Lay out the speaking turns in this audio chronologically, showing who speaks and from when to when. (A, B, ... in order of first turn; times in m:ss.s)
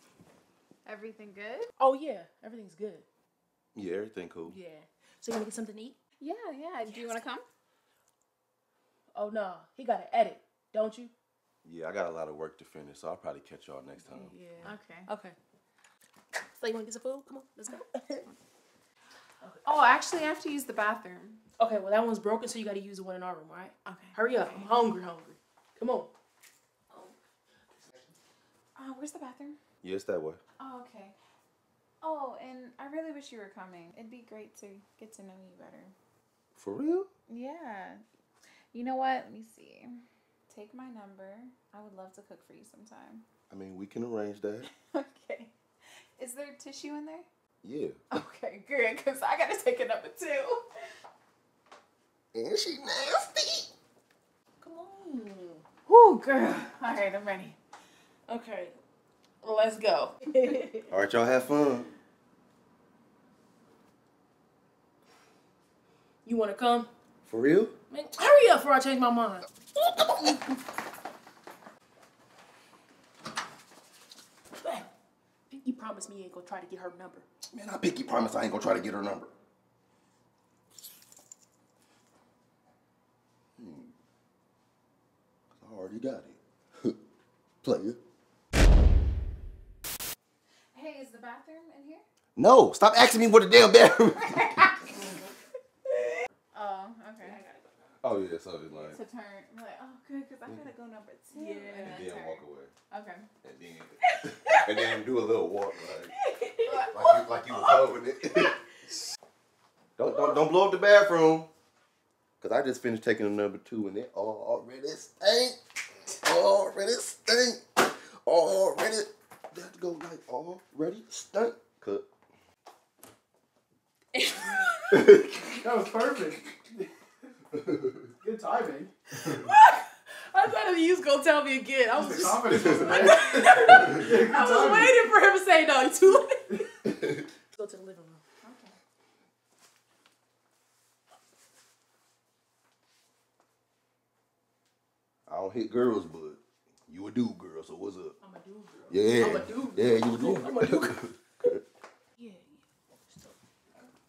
0:00.8-0:01.7 A
0:01.8-0:03.0 B
0:03.7-0:04.6 C
0:04.5-0:06.0 B
0:06.2-0:07.5 A
0:06.8-0:07.3 B
0:09.2-0:11.1 B
0:11.6-0:14.7 C
0:14.1-0:15.4 B
0:14.6-0:15.1 A
0:16.6-0:18.3 B
0:19.6-0:21.4 A
0:21.6-0:26.1 B
0:23.8-0:24.7 A
0:28.8-0:29.6 A
0:29.8-0:30.4 C
0:30.6-0:31.2 A
0:32.0-0:36.0 A
0:36.6-0:37.1 C
0:37.3-0:38.0 A
0:38.7-0:43.2 A
0:43.5-0:44.7 C
0:44.7-0:47.3 A
0:47.6-0:48.0 C
0:48.1-0:50.9 A
0:52.3-0:53.7 C
0:54.6-0:55.6 B
0:55.9-0:57.6 A
0:58.3-0:58.8 B
0:59.4-1:00.9 B
1:00.9-1:01.9 C
1:06.2-1:06.9 B
1:07.3-1:07.8 C
1:07.9-1:10.4 B
1:10.0-1:10.3 C
1:14.6-1:14.9 B
1:15.5-1:17.2 B
1:17.5-1:19.3 C
1:23.6-1:23.9 C
1:25.5-1:27.0 C
1:27.6-1:28.0 C
1:30.7-1:32.0 A
1:32.4-1:34.7 C
1:34.4-1:35.1 A
1:35.9-1:37.4 A
1:37.2-1:37.9 B
1:38.0-1:39.0 C
1:38.9-1:43.3 A
1:41.3-1:42.0 B
1:41.8-1:42.7 C
1:43.4-1:46.1 C
1:46.2-1:46.9 B
1:46.6-1:47.5 A
1:46.8-1:48.6 C
1:50.0-1:51.5 C
1:52.4-1:55.6 C
1:56.2-2:02.1 C
2:04.1-2:05.4 B
2:04.9-2:05.3 C
2:05.5-2:06.9 D
2:08.2-2:08.9 D
2:09.1-2:16.9 B
2:11.9-2:15.0 D
2:16.9-2:17.2 C
2:17.5-2:18.2 B
2:18.4-2:18.8 A
2:25.3-2:28.2 C
2:28.2-2:31.1 B
2:28.9-2:31.6 C
2:32.2-2:33.4 B